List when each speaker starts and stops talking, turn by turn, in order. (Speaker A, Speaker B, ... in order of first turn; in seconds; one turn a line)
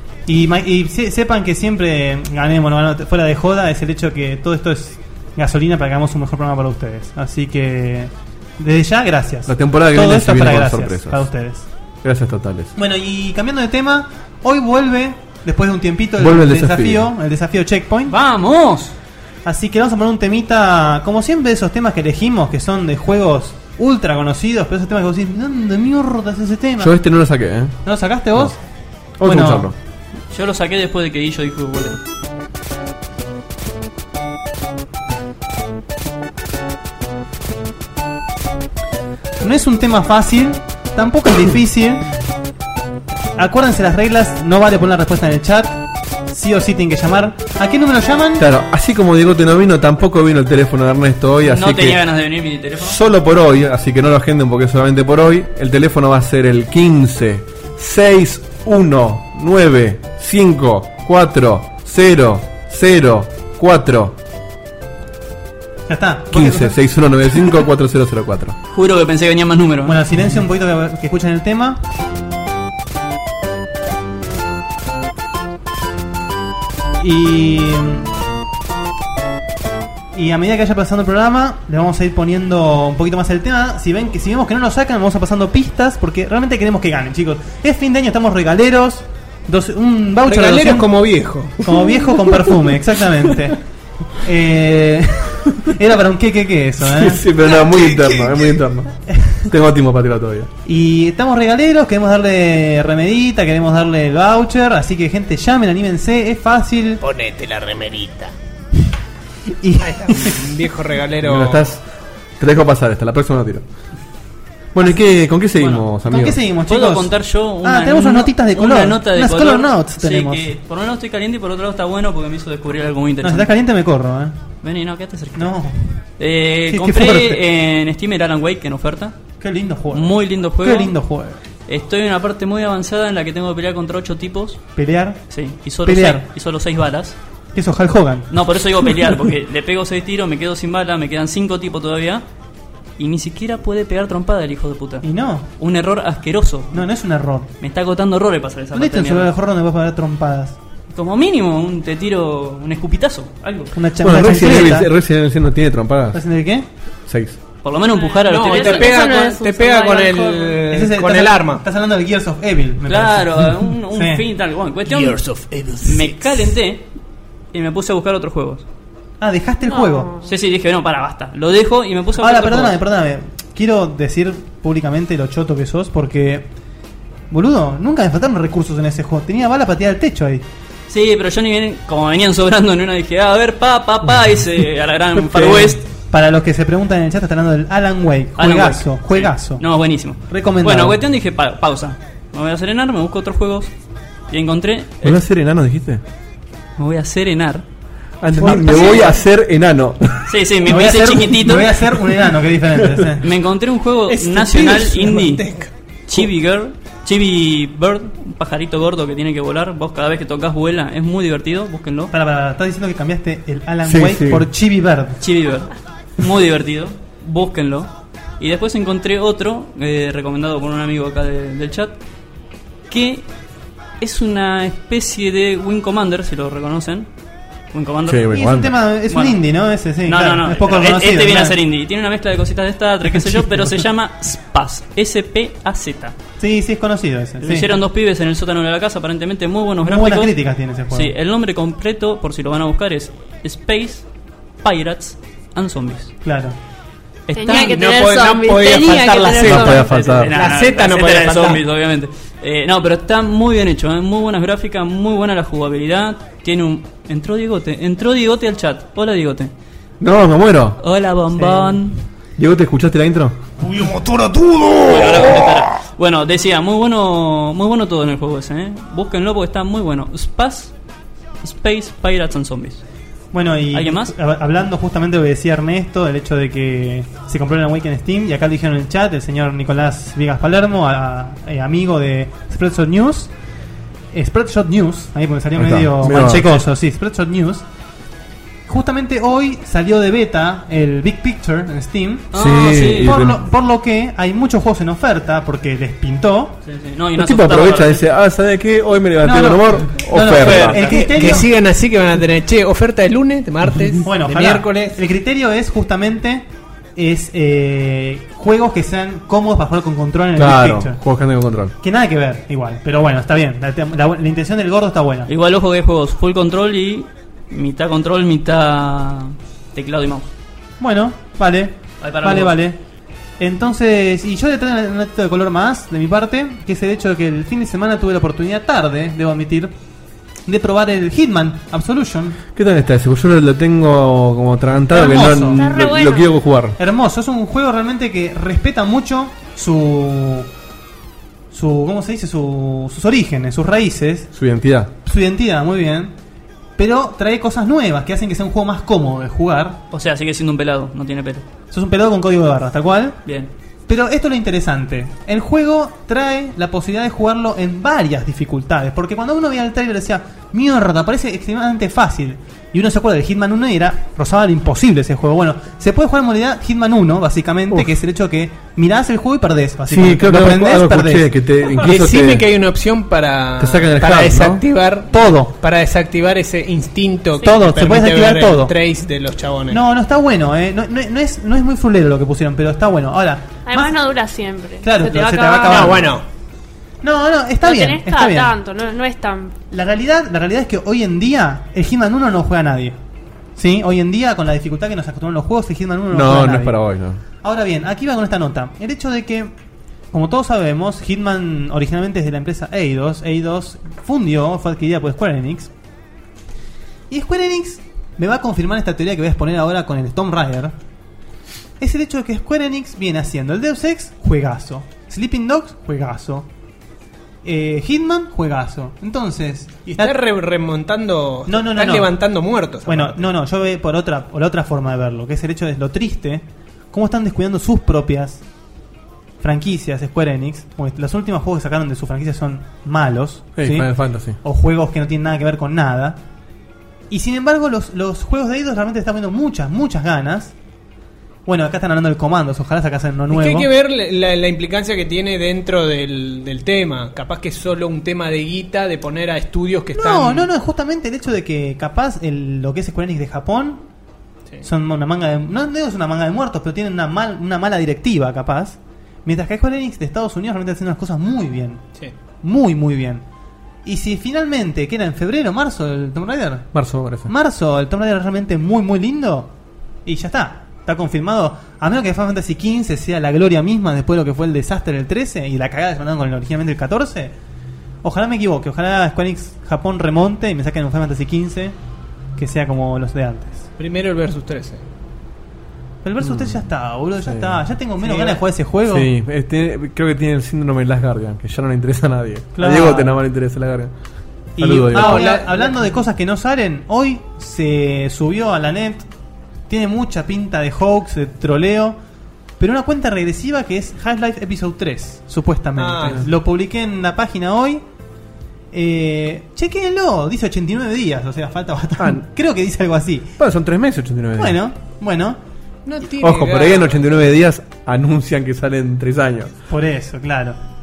Speaker A: 0.3-11.7
Speaker B: 9.5-11.2
Speaker B: 12.0-12.7
Speaker A: 12.8-18.1
Speaker B: 16.2-17.1
Speaker C: 18.1-18.9
Speaker A: 19.4-26.9
Speaker B: 26.8-27.8
Speaker A: 27.8-28.6
Speaker B: 29.2-29.7
Speaker A: 29.2-29.7
Speaker C: 30.3-32.0
Speaker A: 39.4-42.0
Speaker A: 43.4-48.4
Speaker B: 48.4-52.0
Speaker C: 51.5-53.0
Speaker B: 52.8-64.2
Speaker A: 65.9-66.8
Speaker B: 66.3-68.6
Speaker C: 68.7-70.0
Speaker A: 69.8-71.8
Speaker A: 77.0-78.1
Speaker A: 80.1-90.9
Speaker D: 90.2-91.8
Speaker A: 91.6-93.6
Speaker A: 94.2-97.2
Speaker B: 96.8-100.5
Speaker D: 97.6-98.3
Speaker A: 99.1-99.4
Speaker A: 100.7-107.0
Speaker D: 107.0-108.3
Speaker A: 109.6-110.4
Speaker D: 109.8-111.6
Speaker B: 111.2-111.8
Speaker B: 112.4-113.6
Speaker B: 114.7-116.4
Speaker C: 115.6-115.8
Speaker A: 116.1-117.1
Speaker C: 116.7-123.5
Speaker A: 117.6-120.5
Speaker A: 123.2-124.3
Speaker C: 124.6-125.5
Speaker A: 125.3-126.0
Speaker C: 126.2-129.2
Speaker A: 126.7-127.4
Speaker A: 129.4-131.4
Speaker C: 129.9-131.0
Speaker C: 131.7-134.7
Speaker A: 134.8-135.2
Speaker C: 135.3-137.2
Speaker A: 135.8-136.2
Speaker A: 137.5-138.3
Speaker C: 138.3-142.2
Speaker C: 143.0-145.1
Speaker A: 145.0-145.5
Speaker C: 145.6-146.8
Speaker A: 146.7-147.5
Speaker C: 147.6-149.3
Speaker A: 148.7-150.6
Speaker C: 150.9-153.7
Speaker A: 153.7-154.9
Speaker B: 154.0-156.2
Speaker A: 156.1-156.7
Speaker B: 157.1-157.4
Speaker C: 157.6-159.1
Speaker E: 158.0-160.6
Speaker D: 158.2-161.6
Speaker A: 160.7-164.2
Speaker C: 162.8-165.2
Speaker D: 164.8-166.5
Speaker C: 165.8-166.8
Speaker C: 167.5-168.6
Speaker A: 169.2-170.1
Speaker E: 169.7-170.2
Speaker C: 170.2-172.8
Speaker A: 172.2-176.5
Speaker A: 177.3-180.4
Speaker C: 180.9-185.9
Speaker B: 185.1-185.8
Speaker A: 186.1-189.6
Speaker C: 188.4-193.7
Speaker A: 190.3-191.0
Speaker C: 194.3-195.2
Speaker B: 195.0-196.0
Speaker C: 196.8-197.6
Speaker B: 198.2-200.3
Speaker D: 198.4-199.1
Speaker C: 198.7-199.1
Speaker C: 200.3-201.9
Speaker A: 200.7-203.2
Speaker C: 203.2-205.4
Speaker D: 204.1-205.7
Speaker C: 206.1-212.1
Speaker A: 212.1-215.2
Speaker B: 213.8-214.5
Speaker C: 215.2-221.9
Speaker C: 222.9-223.2
Speaker C: 224.0-227.1
Speaker C: 227.7-228.3
Speaker B: 228.1-228.7
Speaker A: 228.3-231.5
Speaker C: 229.1-229.4
Speaker C: 230.0-236.1
Speaker A: 233.0-233.8
Speaker A: 236.4-237.7
Speaker C: 237.4-240.3
Speaker A: 239.8-241.1
Speaker C: 240.9-244.0
Speaker C: 244.6-246.1
Speaker A: 246.2-246.5
Speaker C: 247.3-247.8
Speaker E: 247.3-250.0
Speaker D: 247.5-251.6
Speaker B: 249.3-250.3
Speaker C: 249.8-259.5
Speaker B: 260.0-260.8
Speaker C: 260.8-262.0
Speaker A: 261.4-261.7
Speaker B: 262.4-263.4
Speaker D: 263.6-265.5
Speaker C: 264.9-270.7
Speaker C: 271.4-272.8
Speaker A: 273.3-283.3
Speaker C: 273.7-274.1
Speaker A: 284.1-287.6
Speaker B: 285.6-286.5
Speaker A: 288.7-292.3
Speaker C: 292.3-293.2
Speaker B: 292.3-293.4
Speaker A: 292.9-296.6
Speaker C: 296.6-298.0
Speaker B: 297.1-300.9
Speaker A: 299.2-301.5
Speaker D: 300.4-305.0
Speaker A: 304.0-311.0
Speaker B: 310.4-311.7
Speaker A: 311.8-315.3
Speaker C: 315.3-320.3
Speaker A: 320.8-322.8
Speaker C: 322.0-322.6
Speaker A: 323.4-329.7
Speaker A: 330.5-332.4
Speaker B: 332.5-336.8
Speaker A: 334.9-335.7
Speaker E: 335.6-336.3
Speaker A: 336.8-340.5
Speaker A: 341.5-344.3
Speaker B: 344.3-344.9
Speaker A: 345.0-346.1
Speaker A: 346.8-349.8
Speaker C: 349.9-351.4
Speaker A: 351.7-353.2
Speaker C: 353.2-353.5
Speaker A: 353.9-371.3
Speaker B: 369.9-372.5
Speaker D: 371.7-379.8
Speaker B: 373.6-374.6
Speaker A: 375.1-375.5
Speaker A: 377.4-378.7
Speaker A: 379.7-384.0
Speaker E: 383.7-386.0
Speaker A: 384.8-386.2
Speaker D: 385.6-386.2
Speaker A: 387.0-388.5
Speaker E: 387.6-389.6
Speaker A: 389.7-393.0
Speaker A: 393.6-396.8
Speaker B: 396.1-397.2
Speaker A: 397.4-399.5
Speaker A: 400.1-405.7
Speaker A: 407.1-410.7
Speaker A: 411.8-416.5
Speaker A: 417.4-420.2
Speaker D: 419.9-423.3
Speaker A: 421.5-422.2
Speaker A: 422.9-428.4
Speaker A: 429.4-436.2
Speaker B: 433.6-434.4
Speaker A: 437.1-440.5
Speaker A: 441.4-443.7
Speaker D: 443.3-450.5
Speaker A: 449.9-453.8
Speaker A: 454.6-461.8
Speaker A: 462.4-463.2
Speaker A: 463.8-466.7
Speaker B: 466.7-467.3
Speaker A: 467.2-469.5
Speaker A: 470.1-477.3
Speaker A: 478.0-481.7
Speaker A: 482.4-483.6
Speaker D: 483.8-484.8
Speaker A: 486.0-489.1
Speaker B: 486.2-486.6
Speaker B: 487.2-487.6
Speaker D: 488.0-488.4
Speaker B: 488.9-493.9
Speaker A: 492.5-493.2
Speaker A: 494.6-499.1
Speaker B: 494.6-495.3
Speaker D: 494.9-495.9
Speaker A: 499.7-502.0
Speaker A: 502.6-507.8
Speaker D: 505.8-506.2
Speaker A: 508.7-513.3
Speaker B: 512.0-512.2
Speaker B: 513.4-514.6
Speaker A: 514.4-515.4
Speaker D: 515.8-516.9
Speaker B: 516.2-519.5
Speaker A: 519.7-520.5